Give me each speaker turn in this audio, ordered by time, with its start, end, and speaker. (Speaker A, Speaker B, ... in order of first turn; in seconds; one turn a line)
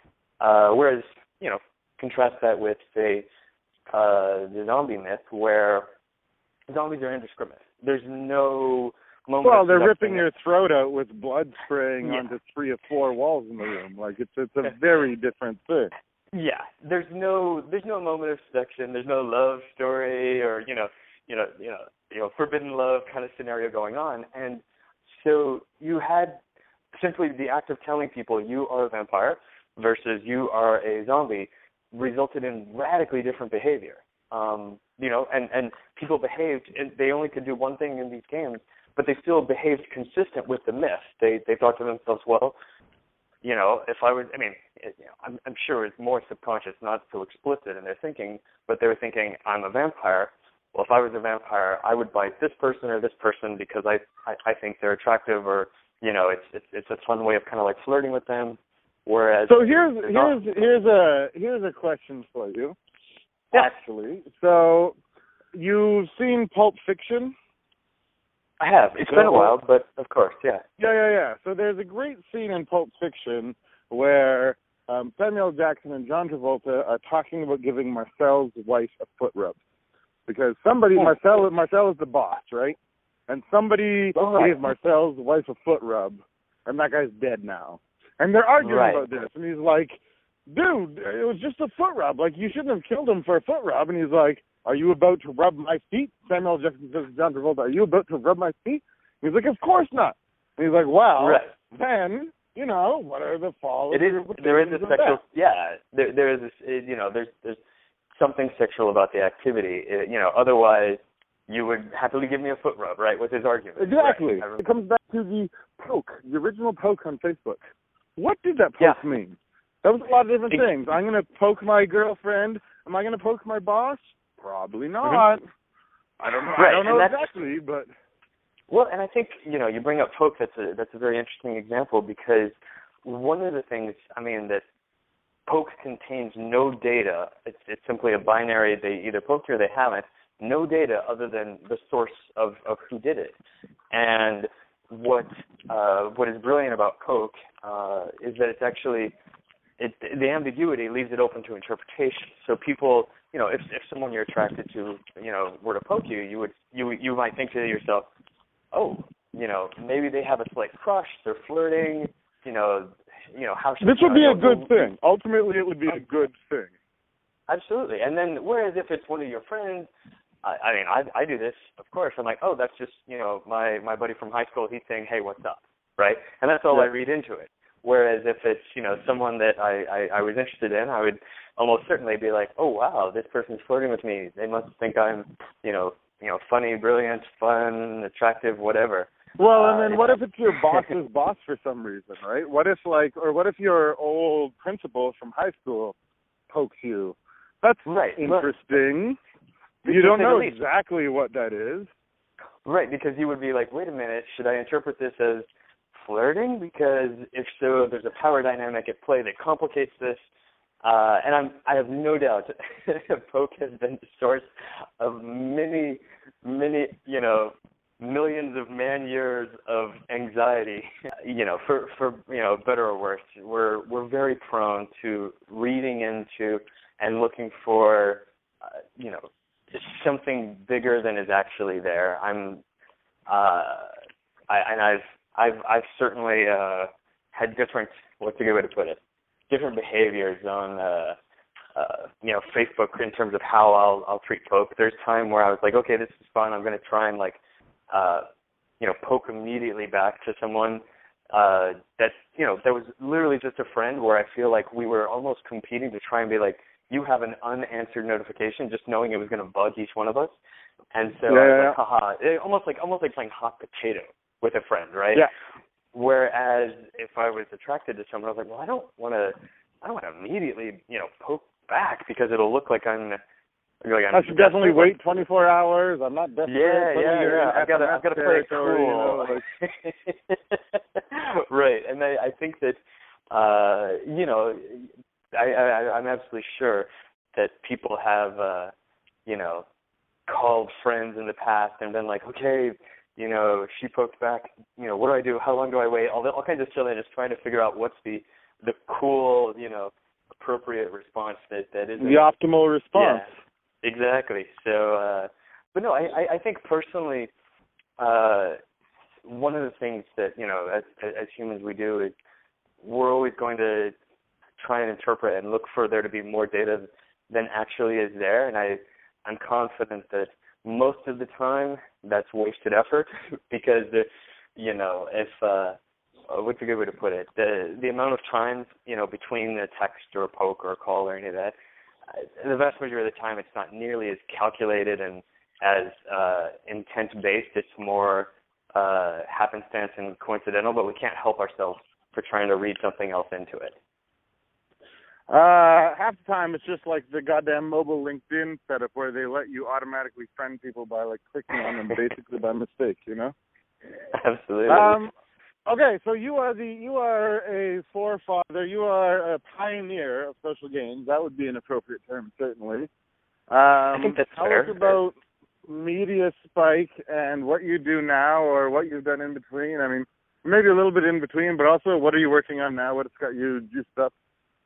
Speaker A: 0.4-3.2
Speaker A: 3.9-5.9
Speaker A: 6.7-10.2
Speaker B: 9.4-15.9
Speaker A: 16.3-26.4
Speaker A: 26.9-42.5
Speaker A: 43.4-60.4
Speaker B: 59.5-62.8
Speaker B: 63.5-65.0
Speaker B: 65.5-67.3
Speaker A: 68.6-70.6
Speaker B: 69.0-69.5
Speaker B: 70.8-79.6
Speaker B: 80.3-82.8
Speaker B: 83.3-105.2
Speaker A: 84.1-84.5
Speaker A: 88.6-89.0
Speaker A: 101.2-101.5
Speaker A: 103.9-107.6
Speaker A: 108.2-114.6
Speaker B: 113.8-117.6
Speaker B: 118.2-125.4
Speaker B: 126.2-127.9
Speaker A: 126.5-127.2
Speaker A: 128.7-134.6
Speaker A: 135.5-143.4
Speaker A: 143.9-149.1
Speaker A: 149.8-158.1
Speaker A: 158.7-164.8
Speaker B: 163.8-166.7
Speaker A: 167.5-169.9
Speaker A: 170.4-190.2
Speaker B: 189.4-195.9
Speaker B: 196.5-199.2
Speaker A: 197.8-198.5
Speaker A: 199.8-200.6
Speaker B: 199.8-201.9
Speaker A: 202.6-210.2
Speaker A: 210.8-232.6
Speaker A: 233.3-233.9
Speaker A: 234.5-241.2
Speaker A: 241.8-247.4
Speaker A: 247.9-248.2
Speaker A: 248.8-260.4
Speaker A: 260.9-265.3
Speaker B: 261.3-261.8
Speaker A: 265.9-273.2
Speaker A: 273.8-274.9
Speaker B: 274.1-279.4
Speaker A: 276.5-282.8
Speaker A: 283.3-288.7
Speaker A: 289.2-289.6
Speaker A: 290.3-302.3
Speaker B: 302.0-303.3
Speaker A: 302.9-307.3
Speaker A: 308.0-308.6
Speaker A: 309.2-312.1
Speaker A: 312.8-313.9
Speaker A: 314.6-325.8
Speaker A: 326.3-331.5
Speaker A: 332.1-343.8
Speaker B: 345.3-353.3
Speaker A: 354.1-355.0
Speaker B: 354.7-355.1
Speaker B: 355.6-362.9
Speaker B: 363.5-365.1
Speaker A: 363.9-364.9
Speaker B: 365.7-374.1